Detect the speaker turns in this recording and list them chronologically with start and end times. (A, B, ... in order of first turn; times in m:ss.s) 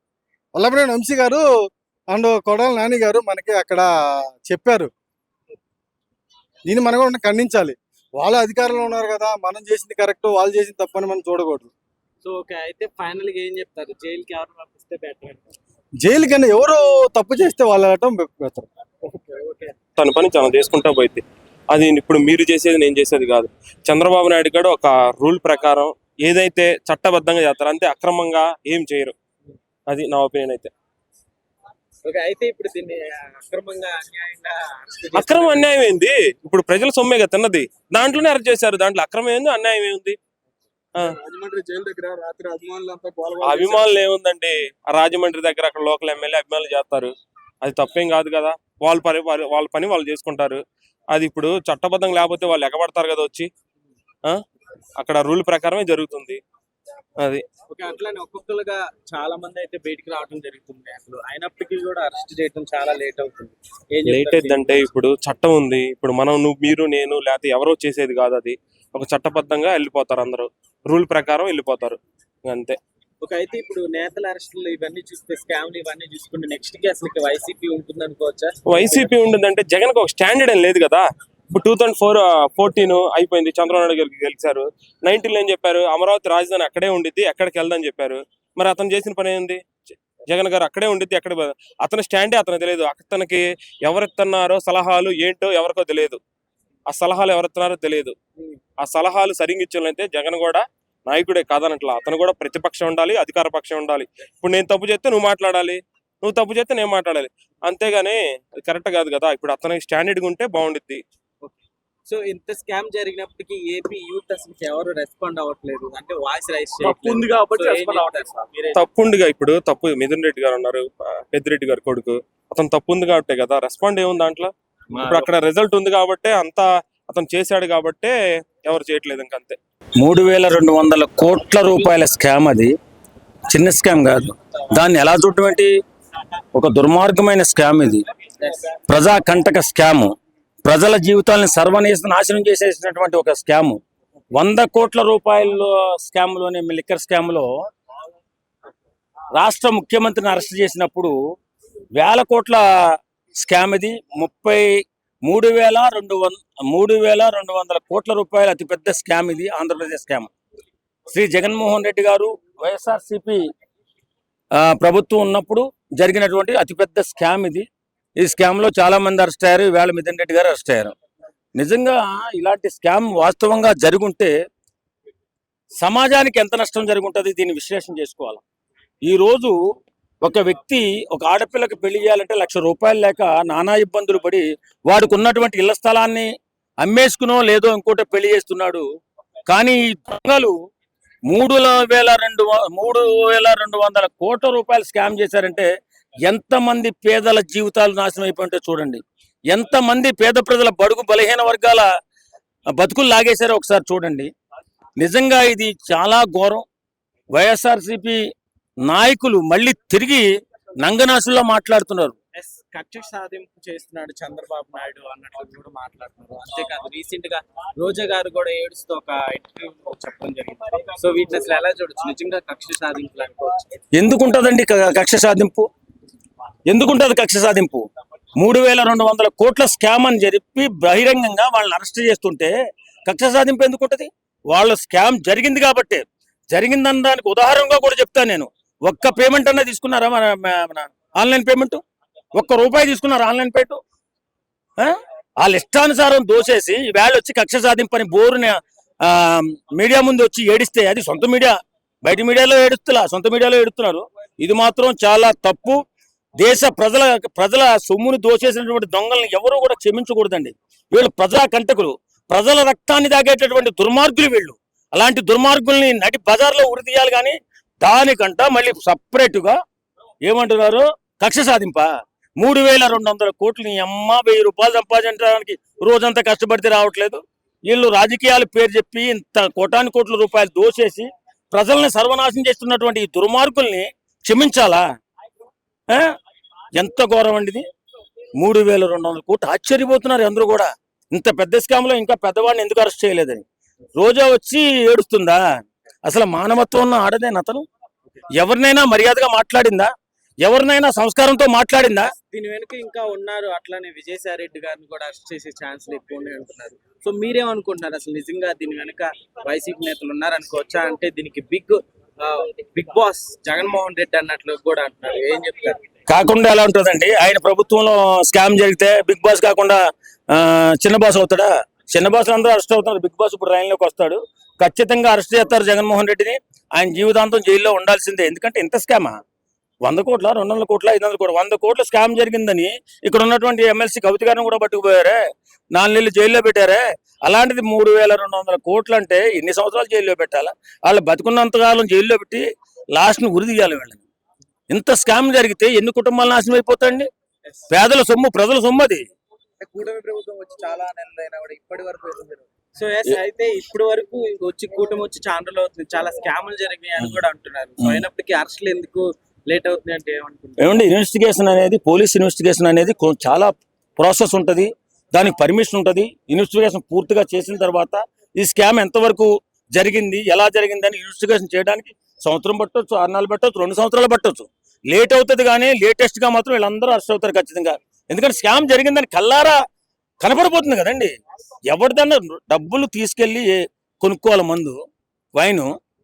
0:00.6-0:01.4 A
0:02.1-0:03.9 A
0:04.5-0:04.9 A
0:06.7-0:11.7 A
0:12.2-0:15.5 B
0:16.0-0:18.7 A
0:19.1-0:19.8 B
0:20.0-0:29.2 C
0:29.9-0:30.7 C
0:32.0-0:35.7 B
0:35.2-0:40.2 C
0:41.0-0:43.9 D
0:43.4-0:50.6 C
0:51.1-0:53.5 C
0:55.0-0:56.4 C
0:57.7-1:04.8 B
1:04.0-1:12.8 C
1:13.2-1:18.5 B
1:18.7-1:36.2 C
1:36.9-1:38.2 C
1:38.8-1:51.0 C
1:51.4-1:58.8 B
1:58.7-2:09.6 C
2:05.0-2:05.2 E
2:10.0-2:12.7 E
2:13.5-2:15.7 E
2:16.5-2:18.0 E
2:18.9-2:20.1 E
2:20.6-2:23.8 E
2:24.4-2:27.5 E
2:29.4-2:31.2 E
2:32.0-2:32.6 E
2:33.4-2:40.3 E
2:41.1-2:43.4 E
2:44.6-2:47.7 E
2:48.2-2:50.9 E
2:51.6-2:54.3 E
2:55.8-2:58.4 E
2:59.0-2:59.6 E
3:00.2-3:06.3 E
3:06.8-3:08.8 E
3:09.5-3:10.5 E
3:11.3-3:15.7 E
3:16.3-3:21.9 E
3:22.7-3:24.3 E
3:25.0-3:26.6 E
3:27.3-3:28.2 E
3:28.8-3:30.3 E
3:30.8-3:32.2 E
3:32.4-3:43.6 B
3:44.0-3:45.7 E
3:46.7-3:47.9 E
3:48.4-3:52.5 E
3:53.1-4:01.8 E
4:02.4-4:03.8 E
4:04.8-4:15.8 E
4:16.4-4:29.6 E
4:30.3-4:31.9 E
4:32.4-4:44.8 E
4:46.8-4:47.6 E
4:48.4-4:53.4 E
4:54.0-4:55.4 E
4:56.0-4:57.6 E
4:58.4-4:59.9 E
5:00.4-5:02.1 E
5:02.1-5:15.8 B
5:16.1-5:19.8 E
5:20.3-5:29.2 E
5:29.8-5:35.2 E
5:35.7-5:44.0 E
5:44.7-5:47.1 E
5:47.7-5:49.1 E
5:49.6-5:52.4 F
5:52.8-6:00.8 B
6:00.6-6:19.6 E
6:20.2-6:21.2 E
6:21.7-6:24.8 E
6:25.4-6:25.7 E